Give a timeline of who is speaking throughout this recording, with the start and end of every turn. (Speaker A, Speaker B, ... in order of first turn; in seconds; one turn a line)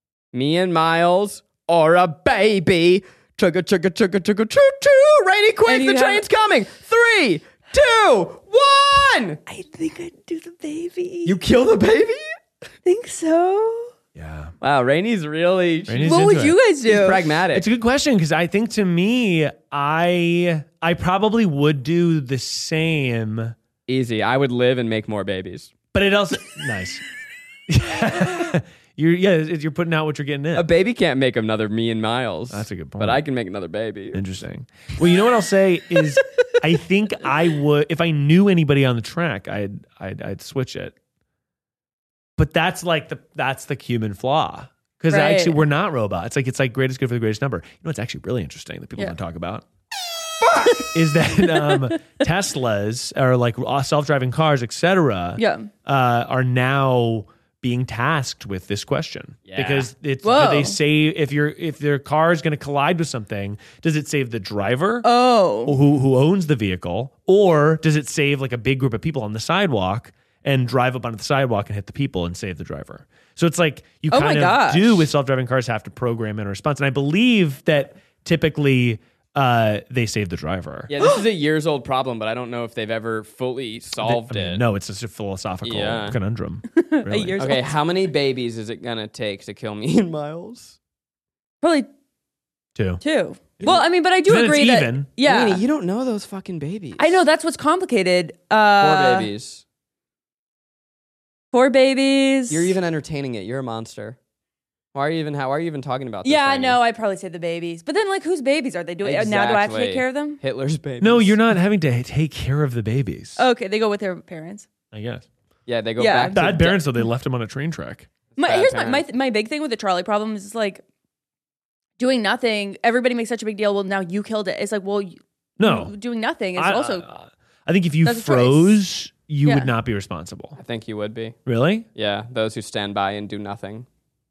Speaker A: 0.3-9.4
Speaker B: 5.7-6.2
Speaker B: 9.5-11.3
Speaker A: 11.2-12.3
Speaker B: 12.8-13.9
Speaker C: 14.1-14.5
Speaker A: 14.6-16.2
Speaker C: 15.9-16.6
Speaker B: 16.0-17.2
Speaker A: 16.8-17.7
Speaker C: 17.5-23.5
Speaker A: 23.9-25.8
Speaker C: 25.9-27.0
Speaker C: 27.7-30.7
Speaker A: 30.6-34.2
Speaker C: 32.5-33.2
Speaker C: 34.1-40.9
Speaker C: 42.4-49.6
Speaker B: 45.1-45.6
Speaker B: 50.5-50.9
Speaker C: 50.9-65.0
Speaker B: 51.4-52.0
Speaker B: 55.4-55.7
Speaker A: 59.5-59.9
Speaker B: 60.2-60.8
Speaker B: 65.0-65.8
Speaker C: 65.7-80.9
Speaker B: 74.1-75.0
Speaker A: 80.9-84.6
Speaker C: 84.0-87.4
Speaker A: 85.6-86.2
Speaker B: 86.7-87.7
Speaker A: 87.4-90.8
Speaker B: 91.6-91.9
Speaker C: 92.7-93.0
Speaker B: 93.0-95.6
Speaker C: 93.6-95.1
Speaker A: 95.2-97.2
Speaker B: 97.0-99.3
Speaker A: 98.8-99.6
Speaker B: 101.5-102.7
Speaker A: 102.5-104.2
Speaker A: 104.9-106.8
Speaker B: 106.2-110.4
Speaker A: 109.0-111.4
Speaker C: 111.0-113.4
Speaker B: 113.4-114.7
Speaker C: 114.9-115.3
Speaker A: 115.7-116.8
Speaker B: 116.0-116.4
Speaker C: 116.3-118.1
Speaker A: 118.3-119.0
Speaker B: 118.4-120.8
Speaker B: 122.0-127.0
Speaker C: 125.6-125.9
Speaker C: 126.5-130.6
Speaker B: 128.0-128.8
Speaker B: 129.4-129.7
Speaker A: 130.6-131.4
Speaker C: 131.4-131.8
Speaker A: 131.9-133.8